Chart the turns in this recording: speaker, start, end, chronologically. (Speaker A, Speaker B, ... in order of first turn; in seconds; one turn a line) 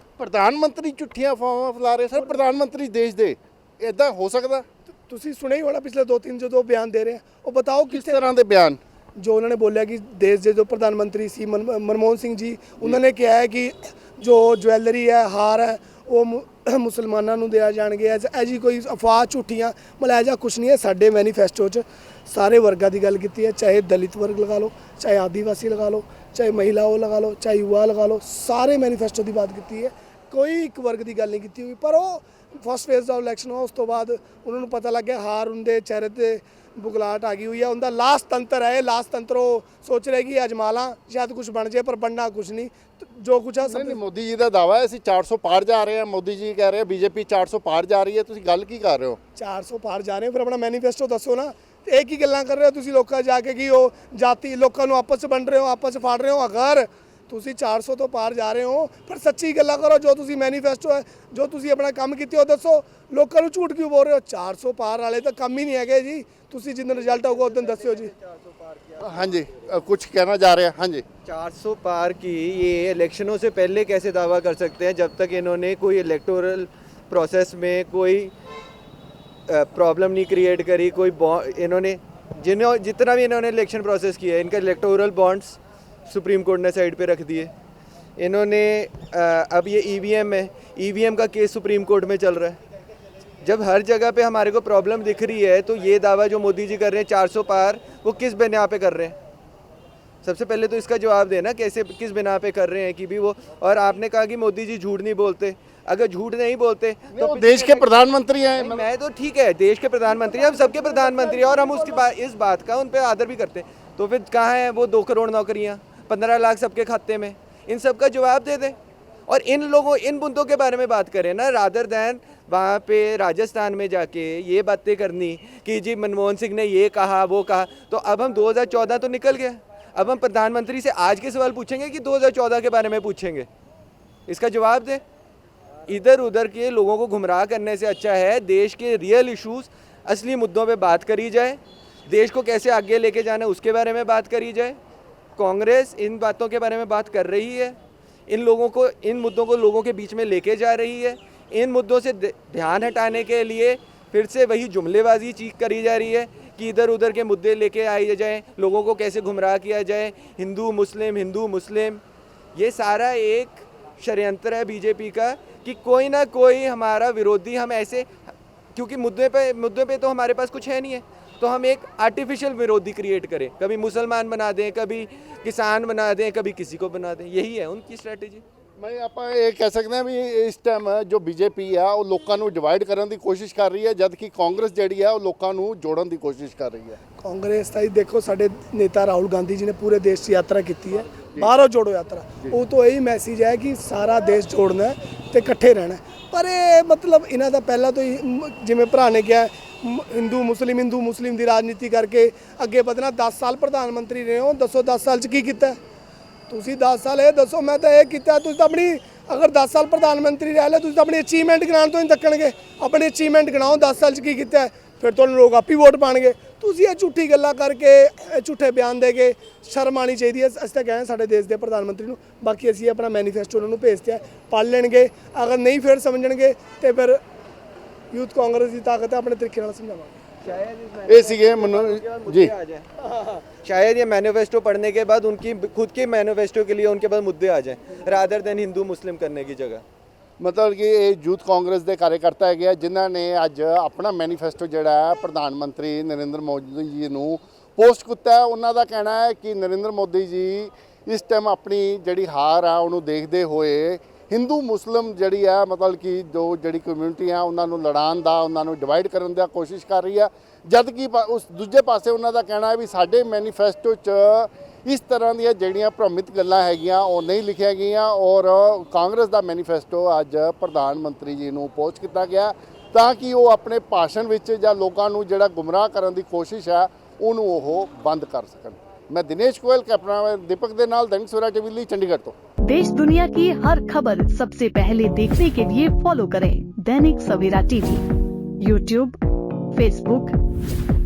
Speaker A: 0.2-4.7
Speaker B: 5.1-8.2
Speaker A: 7.9-8.8
Speaker B: 9.2-44.0
Speaker A: 43.6-49.2
Speaker B: 49.4-68.1
Speaker C: 66.9-69.8
Speaker A: 69.0-71.0
Speaker C: 71.2-78.3
Speaker C: 79.5-87.5
Speaker C: 88.2-92.6
Speaker C: 93.4-99.2
Speaker C: 100.2-108.0
Speaker A: 107.1-108.9
Speaker C: 108.5-118.8
Speaker B: 110.2-112.0
Speaker C: 119.3-133.5
Speaker C: 134.3-135.0
Speaker C: 135.9-144.8
Speaker C: 145.4-147.8
Speaker C: 148.3-162.0
Speaker C: 162.6-168.1
Speaker C: 168.7-178.4
Speaker A: 178.8-187.0
Speaker B: 187.2-205.8
Speaker B: 206.5-227.2
Speaker B: 228.1-230.2
Speaker C: 230.4-232.9
Speaker A: 231.1-232.5
Speaker C: 233.6-239.8
Speaker A: 240.4-282.4
Speaker D: 282.7-288.1
Speaker D: 288.6-289.2
Speaker D: 289.7-290.4